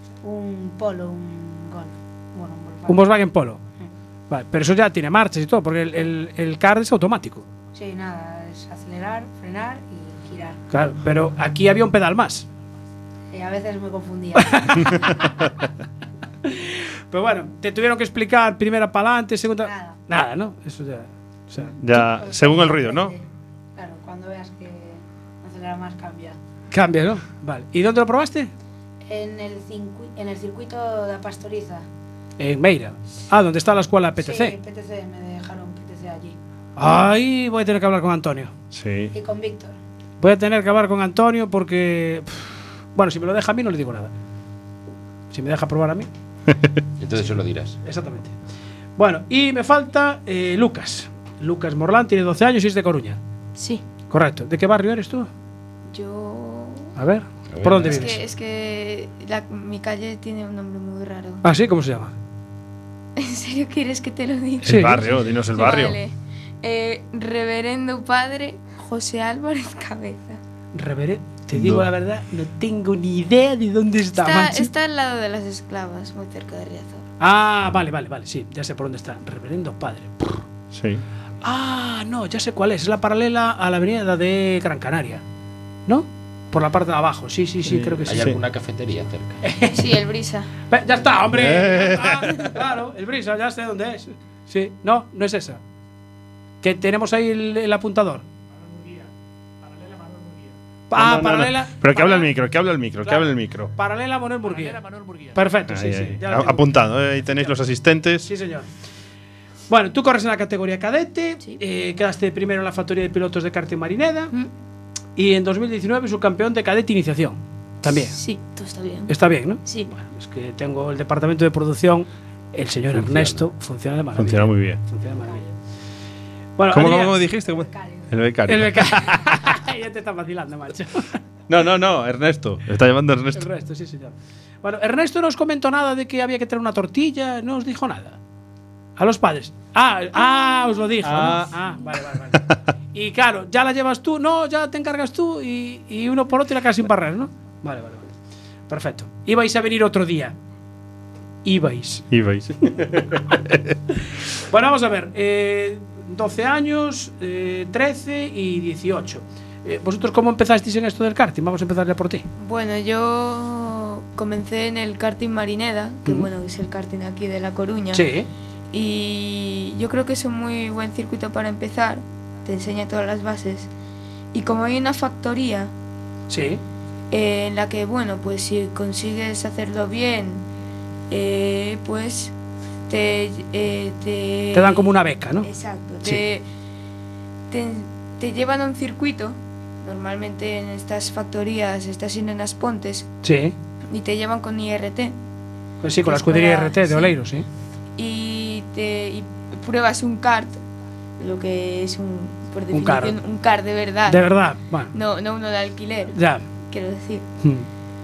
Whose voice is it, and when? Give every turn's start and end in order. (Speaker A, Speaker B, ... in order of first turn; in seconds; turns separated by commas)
Speaker A: 0.2-3.1, Speaker B: 2.9-3.6, Speaker B: 4.3-7.5, Speaker A: 7.7-10.6, Speaker B: 10.7-12.5, Speaker A: 13.3-15.1, Speaker B: 14.4-15.2, Speaker B: 16.4-21.8, Speaker A: 19.6-20.0, Speaker C: 21.8-23.1, Speaker A: 21.9-23.2, Speaker A: 23.8-26.4, Speaker B: 26.7-28.5, Speaker A: 29.0-31.9, Speaker B: 32.4-34.5, Speaker A: 34.2-36.4, Speaker B: 36.8-38.5, Speaker C: 38.7-39.1, Speaker A: 39.1-39.8, Speaker B: 40.2-44.1, Speaker B: 45.3-46.1, Speaker D: 47.0-47.8, Speaker B: 47.8-48.3, Speaker B: 49.0-53.2, Speaker E: 53.6-53.9, Speaker B: 54.1-55.3, Speaker E: 55.9-56.9, Speaker B: 57.0-58.2, Speaker D: 57.5-58.1, Speaker E: 57.8-61.4, Speaker B: 61.4-62.1, Speaker E: 63.2-70.4, Speaker B: 64.6-65.0, Speaker C: 64.6-66.0, Speaker B: 70.8-74.7, Speaker E: 74.1-77.1, Speaker B: 77.2-80.4, Speaker C: 80.7-81.0, Speaker B: 81.4-85.2, Speaker B: 85.9-88.3, Speaker C: 87.7-88.4, Speaker D: 88.1-89.4, Speaker B: 89.4-89.8, Speaker E: 89.7-90.5, Speaker B: 90.7-95.6, Speaker C: 91.3-92.5, Speaker B: 96.6-98.2, Speaker B: 100.9-102.3, Speaker C: 101.0-103.7, Speaker B: 103.0-106.7, Speaker C: 105.7-108.3, Speaker B: 108.2-108.7, Speaker B: 109.7-114.3, Speaker B: 115.2-118.2, Speaker E: 118.1-119.9, Speaker B: 119.1-125.5, Speaker D: 122.9-123.4, Speaker C: 124.2-124.8, Speaker B: 126.6-127.2, Speaker C: 126.7-129.6, Speaker A: 127.5-128.1, Speaker B: 128.5-131.2, Speaker C: 131.5-133.5, Speaker B: 133.3-138.2, Speaker B: 139.0-148.1, Speaker E: 140.2-141.4, Speaker C: 141.0-141.5, Speaker B: 148.7-150.4, Speaker B: 151.4-152.1, Speaker C: 152.1-153.8, Speaker B: 154.5-162.3, Speaker E: 162.4-168.1, Speaker B: 167.9-168.3, Speaker E: 168.7-173.7, Speaker E: 174.3-175.7, Speaker B: 176.3-176.6, Speaker E: 177.1-180.5, Speaker E: 181.1-182.3, Speaker E: 182.9-186.5, Speaker B: 184.5-185.5, Speaker E: 187.5-193.1, Speaker B: 193.2-193.5, Speaker E: 193.9-195.2, Speaker B: 195.8-197.5, Speaker E: 196.0-197.2, Speaker E: 198.0-200.6, Speaker E: 201.2-204.3, Speaker B: 202.7-203.2, Speaker B: 204.1-204.9, Speaker E: 204.9-207.3, Speaker B: 206.1-206.4, Speaker B: 207.4-207.7